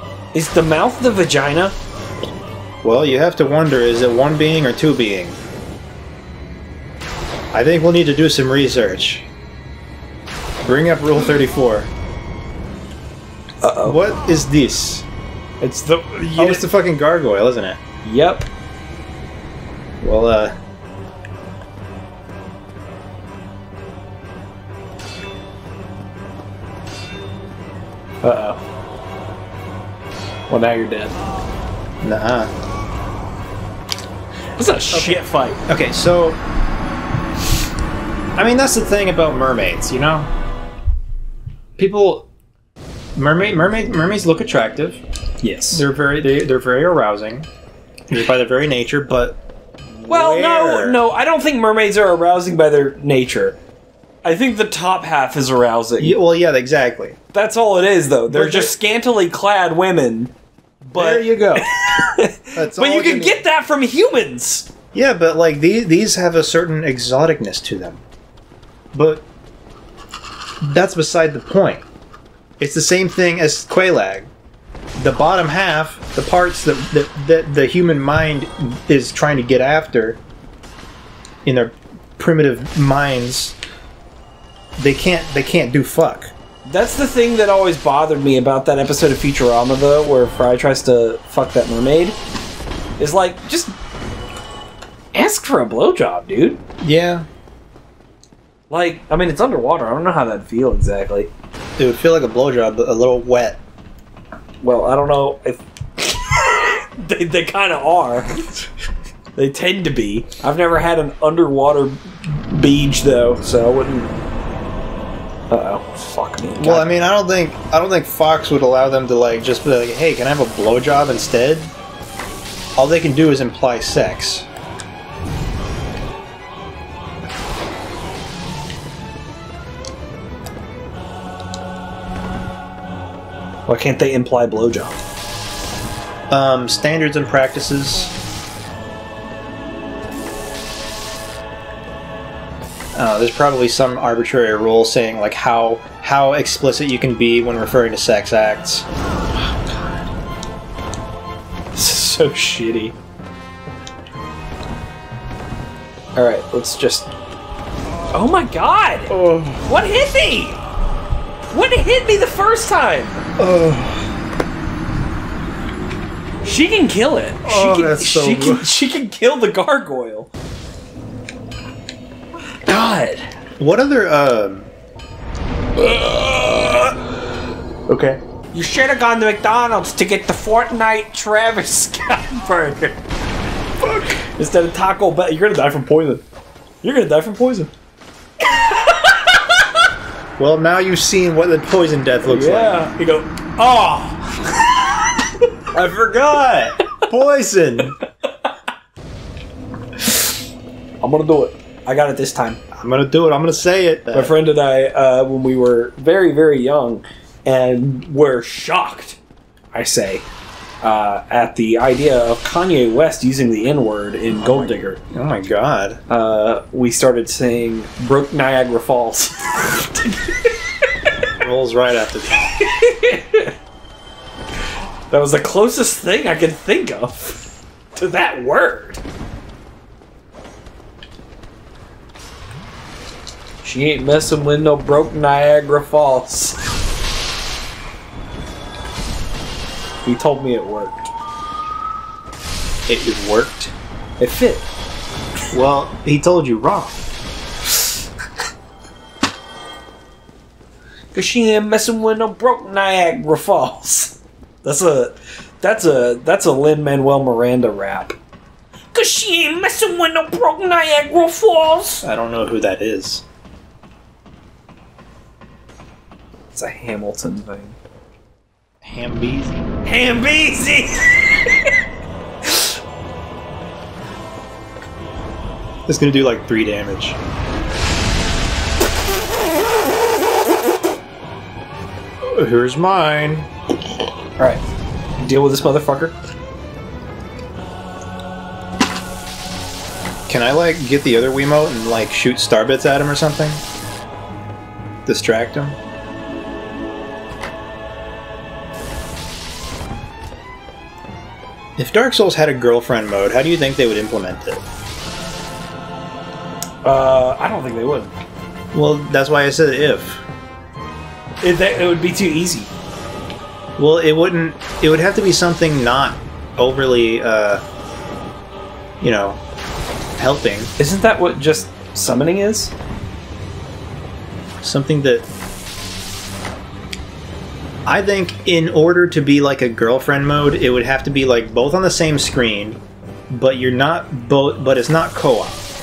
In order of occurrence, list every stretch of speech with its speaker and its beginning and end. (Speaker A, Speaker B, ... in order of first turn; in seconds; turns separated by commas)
Speaker A: 0.3-1.8, Speaker B: 2.8-5.4, Speaker B: 7.5-9.3, Speaker B: 10.6-11.9, Speaker A: 13.6-14.0, Speaker B: 13.8-15.1, Speaker A: 15.6-16.6, Speaker B: 16.4-17.8, Speaker A: 18.0-18.4, Speaker B: 20.0-20.6, Speaker A: 28.2-28.6, Speaker A: 30.5-31.2, Speaker B: 32.0-32.5, Speaker A: 34.6-35.6, Speaker B: 34.9-36.4, Speaker B: 38.4-40.3, Speaker B: 41.8-42.3, Speaker B: 43.1-45.0, Speaker A: 45.4-45.8, Speaker B: 45.7-47.5, Speaker B: 48.1-49.4, Speaker B: 50.0-51.0, Speaker A: 50.1-53.6, Speaker A: 54.2-56.2, Speaker B: 56.0-57.2, Speaker A: 57.3-64.7, Speaker B: 58.3-58.7, Speaker B: 60.9-61.7, Speaker B: 62.5-63.4, Speaker B: 64.9-68.0, Speaker B: 68.9-69.2, Speaker B: 70.6-71.8, Speaker B: 72.6-74.3, Speaker B: 75.0-80.2, Speaker B: 81.4-83.5, Speaker B: 84.8-86.3, Speaker A: 86.7-92.2, Speaker A: 93.0-93.8, Speaker A: 95.1-96.6, Speaker B: 96.8-97.3, Speaker A: 98.7-101.3, Speaker B: 101.8-103.6, Speaker A: 104.6-108.4, Speaker A: 109.3-114.1, Speaker A: 115.5-116.9, Speaker B: 116.6-121.7, Speaker B: 122.8-124.5, Speaker A: 133.7-135.0, Speaker B: 136.3-138.1, Speaker B: 142.9-148.8, Speaker A: 149.4-150.0, Speaker A: 151.7-152.9, Speaker A: 156.2-157.1, Speaker A: 158.1-160.6, Speaker B: 159.1-159.6, Speaker A: 161.5-163.2, Speaker B: 163.4-164.1, Speaker A: 166.4-170.3, Speaker B: 167.4-168.7, Speaker A: 172.7-173.3, Speaker B: 173.6-174.7, Speaker A: 175.8-177.1, Speaker B: 177.9-178.2, Speaker A: 178.5-183.0, Speaker A: 183.8-186.2, Speaker A: 186.8-187.7, Speaker A: 188.4-189.8, Speaker B: 190.4-192.8, Speaker A: 192.2-195.2, Speaker B: 195.7-197.9, Speaker A: 200.0-200.3, Speaker A: 201.0-202.6, Speaker B: 202.7-204.3, Speaker A: 204.1-209.2, Speaker A: 209.7-210.2, Speaker A: 210.8-215.0, Speaker B: 214.4-216.0, Speaker A: 216.1-220.6, Speaker B: 221.4-222.6, Speaker A: 222.5-223.5, Speaker A: 225.1-229.0, Speaker A: 233.6-236.6, Speaker A: 240.0-241.1, Speaker B: 242.9-243.7, Speaker A: 244.2-244.7, Speaker B: 245.5-247.0, Speaker A: 251.1-258.2, Speaker A: 258.9-262.1, Speaker B: 262.0-263.2, Speaker A: 266.5-267.8, Speaker B: 268.8-269.7, Speaker A: 269.8-271.7, Speaker B: 275.9-277.2, Speaker B: 282.3-283.5, Speaker A: 285.2-286.1, Speaker B: 290.3-293.6, Speaker B: 295.1-295.8, Speaker B: 301.8-304.6, Speaker A: 306.8-308.1, Speaker B: 308.7-310.2, Speaker A: 311.4-312.7, Speaker B: 313.8-317.6, Speaker B: 319.0-319.4, Speaker B: 320.2-320.7, Speaker A: 320.8-322.7, Speaker B: 324.6-325.3, Speaker B: 327.9-335.6